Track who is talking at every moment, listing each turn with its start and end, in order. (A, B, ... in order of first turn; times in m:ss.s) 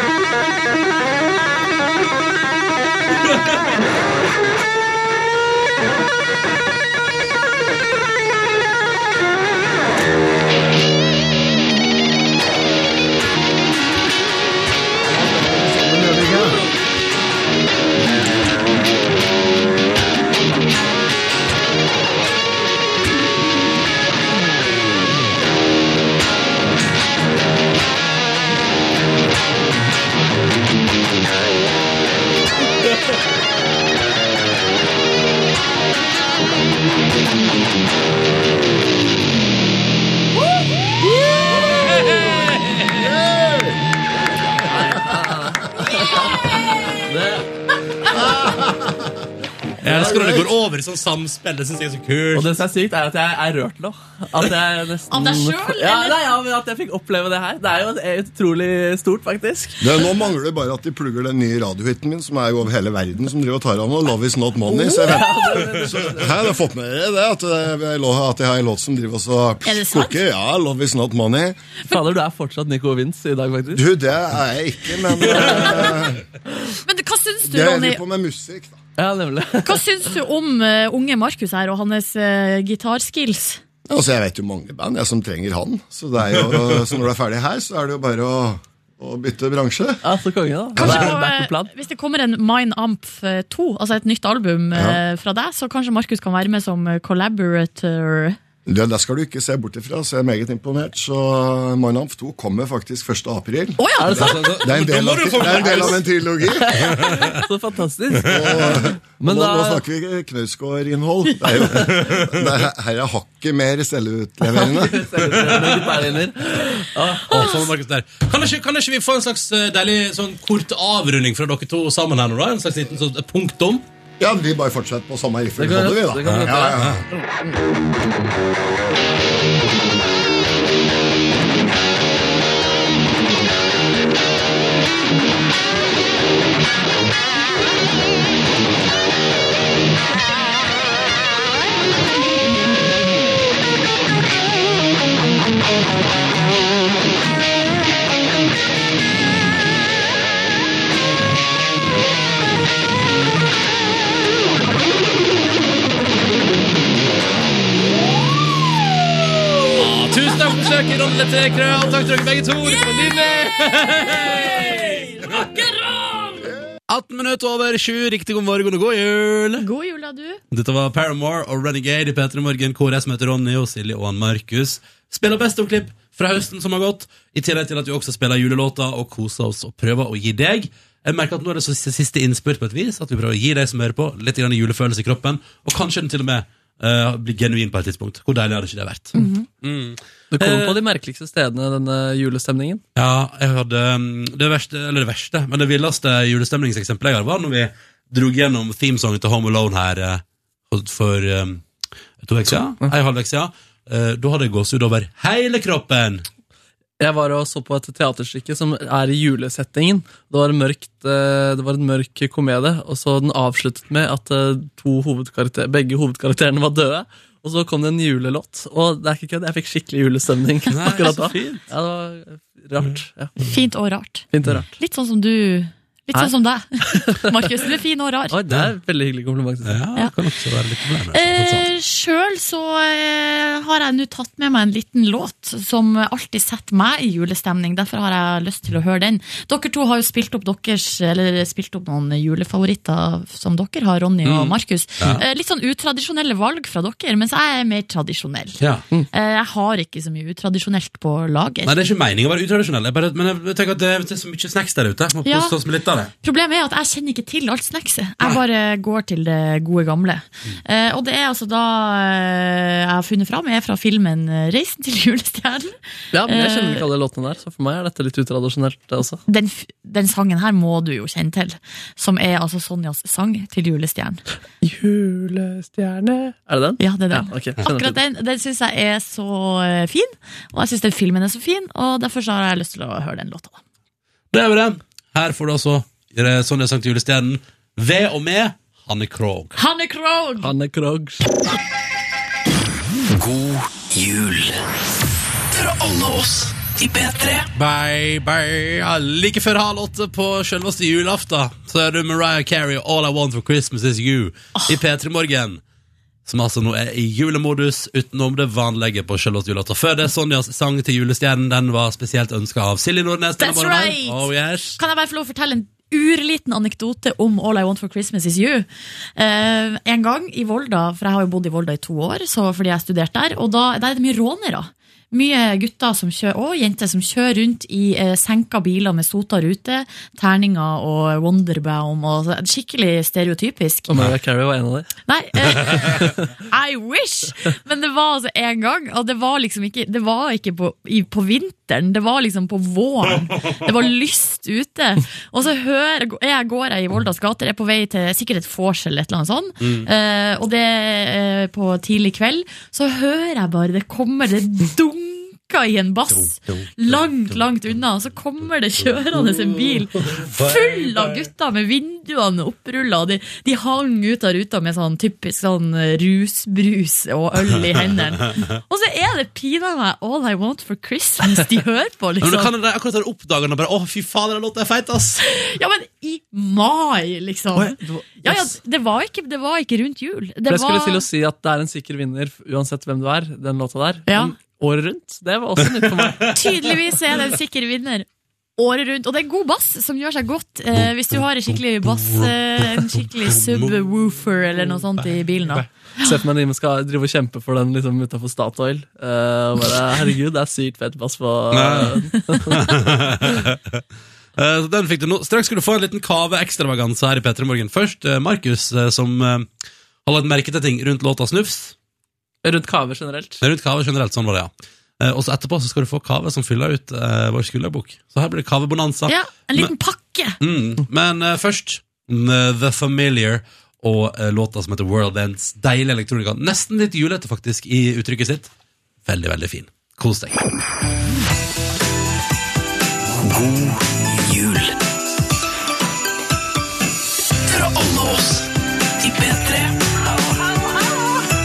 0:15.8-0:16.4 A
0:42.9-0:43.7 A
0:44.6-0:46.4 B
0:47.0-0:47.4 B
0:48.2-0:48.9 A
0:49.8-0:52.5 C
0:49.9-0:50.4 A
0:52.3-0:59.9 B
0:55.1-0:56.2 D
0:59.8-1:11.6 A
1:04.7-1:06.6 B
1:09.6-1:10.2 D
1:11.9-1:13.9 B
1:13.7-1:16.2 A
1:15.3-1:15.9 B
1:16.8-1:18.0 D
1:17.4-1:18.8 A
1:19.0-1:19.8 B
1:19.6-1:23.6 D
1:23.8-1:30.0 A
1:30.0-1:31.7 B
1:30.8-1:31.1 A
1:30.8-1:38.4 D
1:34.7-1:35.0 A
1:38.6-1:46.8 A
1:43.8-1:44.5 D
1:44.0-1:44.4 B
1:44.1-1:46.0 C
1:45.5-1:46.0 B
1:46.5-1:49.8 B
1:46.7-1:47.4 C
1:48.2-1:55.1 A
1:51.8-1:52.4 C
1:54.4-1:57.3 B
1:55.3-1:55.8 C
1:57.3-2:03.8 C
1:57.3-1:57.7 D
2:04.2-2:07.0 A
2:05.6-2:06.9 B
2:06.2-2:07.0 C
2:39.7-2:49.6 C
2:42.6-2:42.9 D
2:49.6-2:50.4 D
2:50.5-3:10.8 C
3:09.2-3:09.4 D
3:10.3-3:12.8 B
3:13.0-3:21.6 C
3:22.2-3:26.2 C
3:22.5-3:22.9 B
3:27.0-3:43.4 B
3:40.7-3:41.6 C
3:43.4-3:48.3 D
3:44.3-3:44.7 B
3:46.9-3:47.2 B
3:48.3-3:49.8 B
3:49.6-3:51.7 C
3:51.1-4:08.6 D
4:04.2-4:05.2 C
4:08.6-4:08.8 C
4:09.1-4:11.8 D
4:11.6-4:16.1 C
4:15.2-4:15.6 D
4:16.2-4:26.8 D
4:26.1-4:29.2 B
4:29.3-4:34.2 D
4:34.6-4:38.0 B
4:36.8-4:43.6 D
4:44.3-4:49.6 C
4:49.6-4:50.5 D
4:50.4-4:51.2 B
4:53.1-4:54.6 E
4:55.5-4:57.5 E
4:57.6-5:05.6 C
5:06.2-5:14.8 C
5:13.4-5:33.9 D
5:33.9-5:34.9 B
5:35.1-6:12.5 D
5:35.9-5:36.1 B
5:49.6-5:49.9 C
5:56.1-5:57.4 C
5:58.8-6:01.3 C
6:12.2-6:15.2 C
6:15.2-6:21.0 D
6:17.5-6:18.5 B
6:20.5-6:26.8 B
6:24.1-6:24.3 D
6:25.6-6:26.3 C
6:26.3-6:28.0 D
6:28.6-6:36.2 D
6:30.7-6:33.8 C
6:35.0-6:35.6 C
6:36.0-6:42.7 B
6:41.5-6:43.8 C
6:44.4-6:49.5 C
6:50.0-6:51.7 C
6:52.4-6:53.4 B
6:53.4-6:59.7 C
6:59.1-7:00.4 D
7:00.4-7:08.5 C
7:09.0-7:10.4 C
7:13.2-7:14.8 E
7:17.4-7:20.3 E